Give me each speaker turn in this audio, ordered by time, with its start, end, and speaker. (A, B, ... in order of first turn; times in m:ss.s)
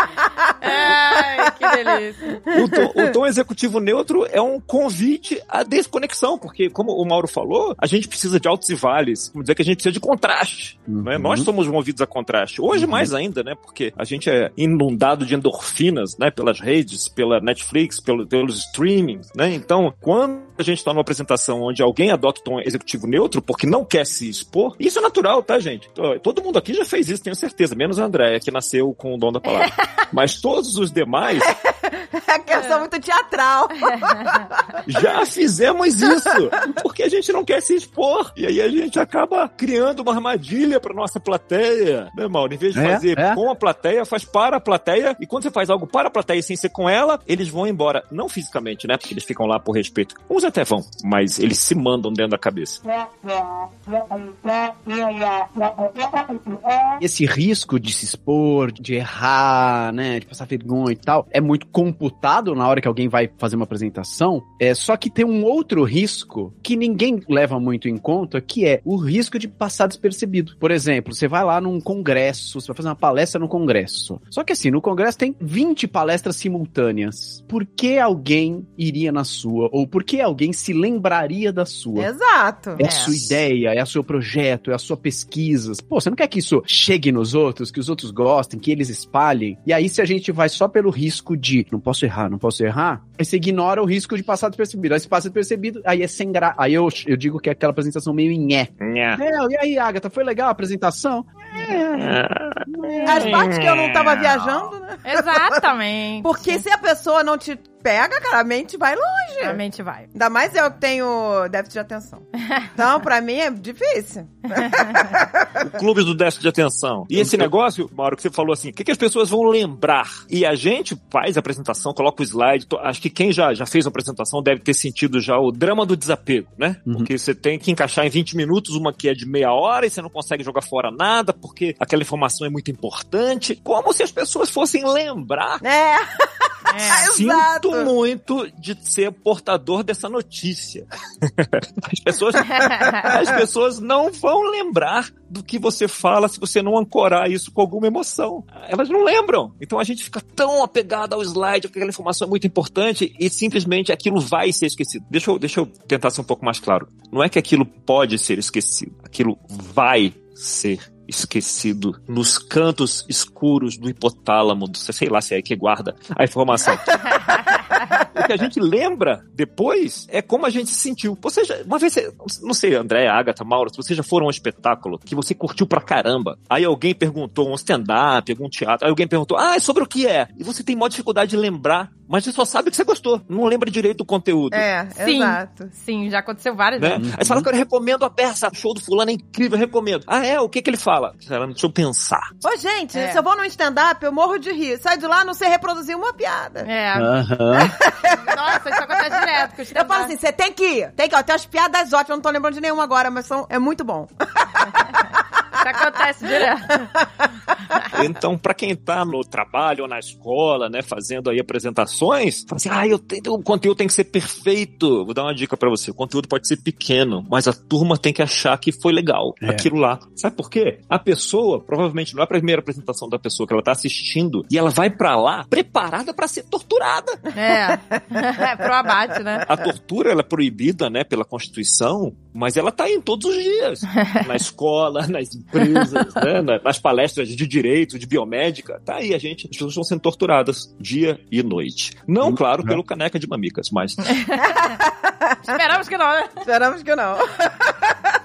0:00.6-0:02.4 A
0:02.5-0:31.5 B
0:10.9-0:11.5 C
0:12.7-0:13.1 C
0:31.4-0:34.8 D
0:32.5-0:32.8 A
0:34.8-0:52.8 B
0:42.7-0:43.4 C
0:57.0-1:22.1 C
1:22.0-1:22.8 D
1:22.8-1:43.4 C
1:22.8-1:23.2 A
1:38.8-1:39.2 B
1:41.6-1:44.7 B
1:43.0-1:45.5 D
1:45.0-1:46.6 A
1:46.2-1:49.6 D
1:49.4-1:50.1 A
1:50.1-1:55.5 D
1:54.6-1:55.0 A
1:55.6-2:15.6 B
1:57.1-1:57.5 C
2:15.6-2:17.9 D
2:16.7-2:17.1 A
2:16.9-3:04.6 B
2:22.6-2:23.0 A
3:04.5-3:05.7 D
3:05.0-3:07.0 A
3:06.8-3:12.3 B
3:07.0-3:07.5 C
3:12.4-3:16.7 D
3:12.9-3:13.2 A
3:16.6-3:17.1 A
3:17.0-3:17.7 C
3:17.6-3:18.3 D
3:18.0-3:20.1 A
3:19.7-3:24.9 D
3:25.6-3:26.8 A
3:27.9-3:47.2 B
3:39.4-3:39.7 C
3:47.3-3:49.5 A
3:47.5-3:48.0 D
3:49.4-4:04.2 B
4:02.2-4:02.8 C
4:04.2-4:04.8 A
4:05.4-4:06.4 A
4:06.4-4:07.9 D